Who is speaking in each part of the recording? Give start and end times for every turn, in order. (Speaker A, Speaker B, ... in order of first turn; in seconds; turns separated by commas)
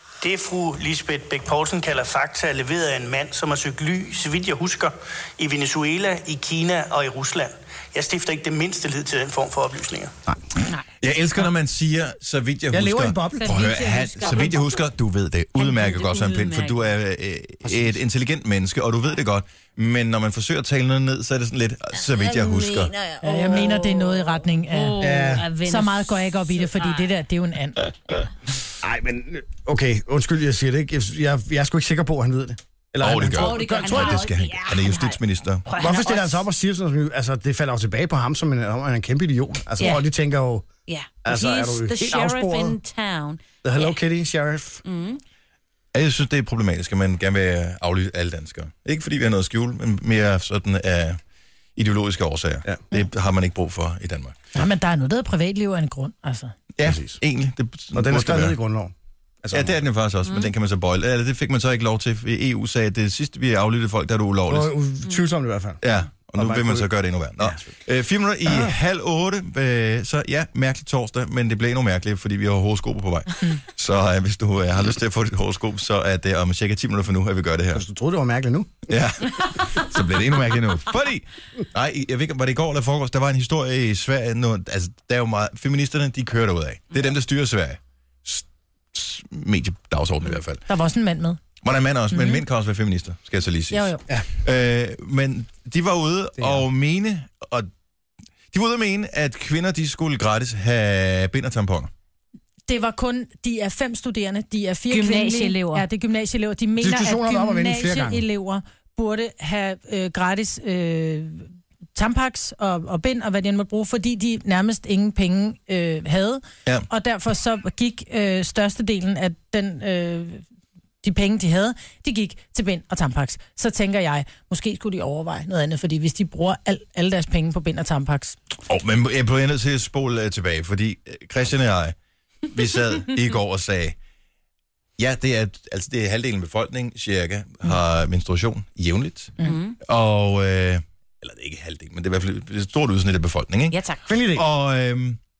Speaker A: 0.2-10.1, Speaker B: 11.0-22.9, Speaker C: 12.7-13.6, Speaker D: 13.4-14.8, Speaker D: 15.6-16.8, Speaker C: 17.6-18.0, Speaker D: 22.0-27.1, Speaker E: 23.2-27.9, Speaker C: 25.0-25.5, Speaker C: 28.8-34.3, Speaker B: 33.0-35.6, Speaker D: 33.3-36.4, Speaker C: 35.8-40.7, Speaker D: 39.8-40.1, Speaker D: 40.9-44.0, Speaker C: 41.2-42.8, Speaker C: 43.6-44.8, Speaker D: 44.8-45.2, Speaker B: 45.9-51.2, Speaker B: 51.8-54.4, Speaker E: 54.5-56.5, Speaker B: 56.7-58.6, Speaker C: 56.8-57.2, Speaker C: 57.9-59.8, Speaker B: 59.5-64.7, Speaker D: 60.2-60.5, Speaker C: 64.5-65.8, Speaker B: 65.8-77.8, Speaker C: 66.3-67.7, Speaker C: 68.5-68.7, Speaker C: 77.7-78.9, Speaker B: 78.9-90.6, Speaker E: 90.7-91.4, Speaker B: 91.6-97.7, Speaker E: 92.1-92.4, Speaker E: 93.7-94.0, Speaker C: 96.4-96.6, Speaker B: 98.5-101.9, Speaker E: 102.7-120.4, Speaker D: 104.9-105.9, Speaker C: 106.8-108.2, Speaker E: 121.0-128.4, Speaker B: 128.7-131.9, Speaker B: 132.5-133.9, Speaker B: 135.0-139.3, Speaker D: 139.4-139.8, Speaker B: 139.8-143.8, Speaker D: 143.7-144.1, Speaker C: 144.1-144.4, Speaker B: 144.3-145.2